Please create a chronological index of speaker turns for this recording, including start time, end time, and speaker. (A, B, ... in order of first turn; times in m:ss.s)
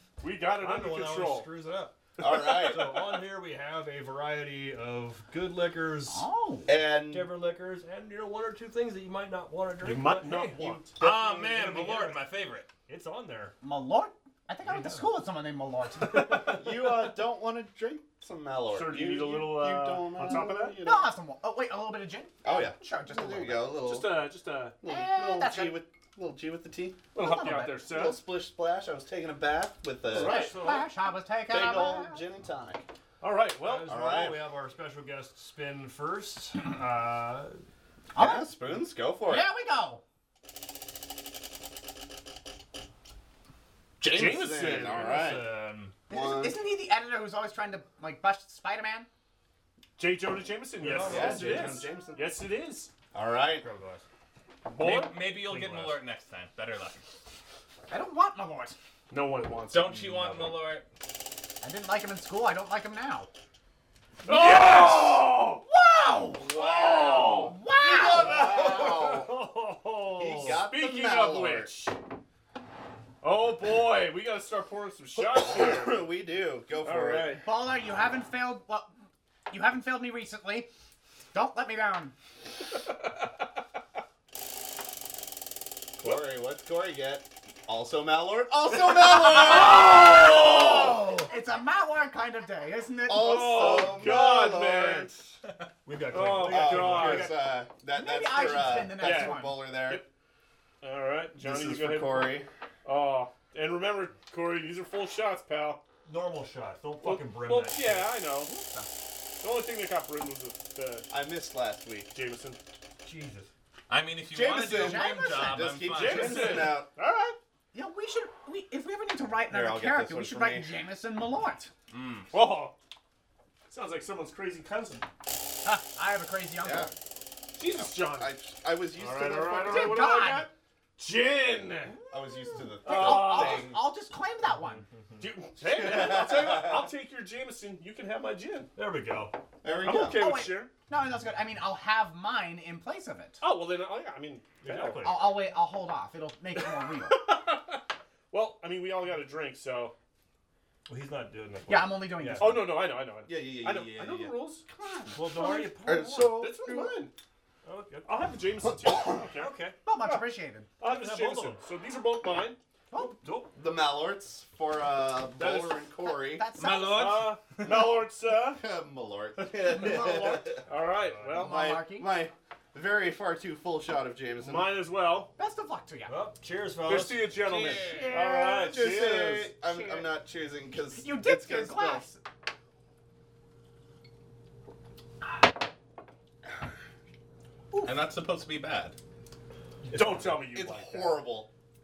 0:00.2-0:01.5 A
0:00.5-0:06.2 B
0:02.2-0:03.1 C
0:02.2-0:02.7 A
0:06.1-0:06.7 D
0:06.6-0:07.3 C
0:06.9-0:10.7 B
0:09.8-0:11.0 A
0:10.6-0:11.5 C
0:11.0-0:12.7 E
0:11.4-0:12.2 B
0:12.8-0:13.5 B
0:13.6-0:16.6 D
0:16.3-0:21.1 C
0:18.7-0:20.8 A
0:20.8-0:23.7 D
0:22.4-0:27.1 C
0:23.8-0:24.8 A
0:24.8-0:25.8 D
0:27.1-0:28.2 A
0:27.2-0:27.8 D
0:27.8-0:30.5 C
0:30.1-0:30.8 A
0:30.2-0:32.2 D
0:31.5-0:32.8 C
0:33.2-0:34.0 A
0:33.6-0:37.6 B
0:33.8-0:34.4 C
0:38.1-0:38.5 D
0:38.1-0:39.5 C
0:39.2-0:40.0 D
0:44.0-0:46.6 C
0:44.0-0:45.4 A
0:44.8-0:45.9 B
0:46.1-0:49.1 D
0:50.0-0:52.9 A
0:50.8-0:51.9 B
0:51.0-0:52.3 C
0:53.1-0:53.6 C
0:53.5-0:54.0 B
0:54.6-0:55.2 A
0:54.8-0:57.0 E
0:55.3-0:56.0 B
0:57.9-0:58.8 D
0:59.1-1:00.6 A
0:59.7-1:00.8 E
1:01.6-1:03.3 D
1:04.2-1:05.6 A
1:04.3-1:08.3 D
1:06.4-1:07.6 A
1:06.5-1:09.3 C
1:08.1-1:10.6 B
1:08.5-1:09.3 A
1:10.2-1:11.7 C
1:10.3-1:12.0 A
1:13.2-1:16.0 A
1:15.2-1:17.4 C
1:16.8-1:17.4 A
1:17.4-1:18.9 D
1:19.5-1:20.7 D
1:21.3-1:22.1 D
1:26.0-1:30.5 C
1:29.3-1:31.1 A
1:29.8-1:33.9 D
1:33.1-1:35.1 C
1:33.1-1:35.3 A
1:35.8-1:37.4 B
1:36.1-1:37.4 A
1:36.4-1:40.0 C
1:37.9-1:39.6 D
1:38.9-1:40.0 A
1:40.8-1:45.8 A
1:41.4-1:42.5 C
1:46.0-1:48.2 B
1:47.0-1:48.5 A
1:48.4-1:48.9 D
1:49.4-1:51.1 A
1:51.1-1:52.1 C
1:52.1-1:52.6 A
1:53.0-1:53.5 B
1:53.9-1:56.8 E
1:54.3-1:56.9 C
1:54.5-1:55.7 D
1:55.8-1:57.4 A
1:57.7-2:01.7 D
1:59.5-2:00.7 C
2:01.9-2:02.3 E
2:02.3-2:02.7 A
2:03.7-2:05.0 A
2:05.6-2:06.9 D
2:06.6-2:06.9 C
2:07.6-2:08.3 A
2:07.7-2:10.0 C
2:09.0-2:12.0 A
2:09.7-2:10.5 D
2:12.1-2:13.8 C
2:12.2-2:14.8 D
2:12.8-2:13.7 A
2:15.2-2:18.7 A
2:15.7-2:16.9 C
2:18.8-2:19.4 B
2:19.6-2:20.2 C
2:19.8-2:20.7 A
2:20.0-2:23.4 D
2:23.4-2:25.2 A
2:24.6-2:25.4 B
2:25.0-2:27.2 D
2:27.1-2:29.9 A
2:30.9-2:32.7 B
2:31.7-2:32.8 D
2:32.4-2:34.6 A
2:33.2-2:37.0 C
2:35.1-2:36.4 B
2:35.3-2:37.1 A
2:37.6-2:38.3 B
2:38.0-2:39.5 A
2:38.8-2:39.2 C
2:39.3-2:39.8 B
2:39.8-2:40.7 D
2:40.8-2:42.6 A
2:40.8-2:41.6 B
2:42.9-2:43.2 D
2:42.9-2:43.5 B
2:43.5-2:46.5 C
2:45.4-2:45.8 A
2:46.0-2:47.3 D
2:46.6-2:47.2 E
2:46.9-2:48.6 A
2:48.5-2:50.6 C
2:49.7-2:50.5 D
2:50.6-2:51.6 A
2:51.0-2:51.4 B
2:51.3-2:52.1 D
2:51.3-2:54.8 C
2:54.4-2:55.3 A
2:55.4-2:56.2 D
2:56.1-2:57.4 B
2:56.8-2:59.5 A
2:57.4-2:58.2 E
2:57.6-2:58.8 D
2:58.5-3:02.0 C
2:59.6-3:00.1 D
3:00.9-3:02.2 D
3:07.7-3:08.0 D
3:07.8-3:09.0 E
3:09.8-3:10.4 B
3:09.9-3:11.2 A
3:10.5-3:11.5 C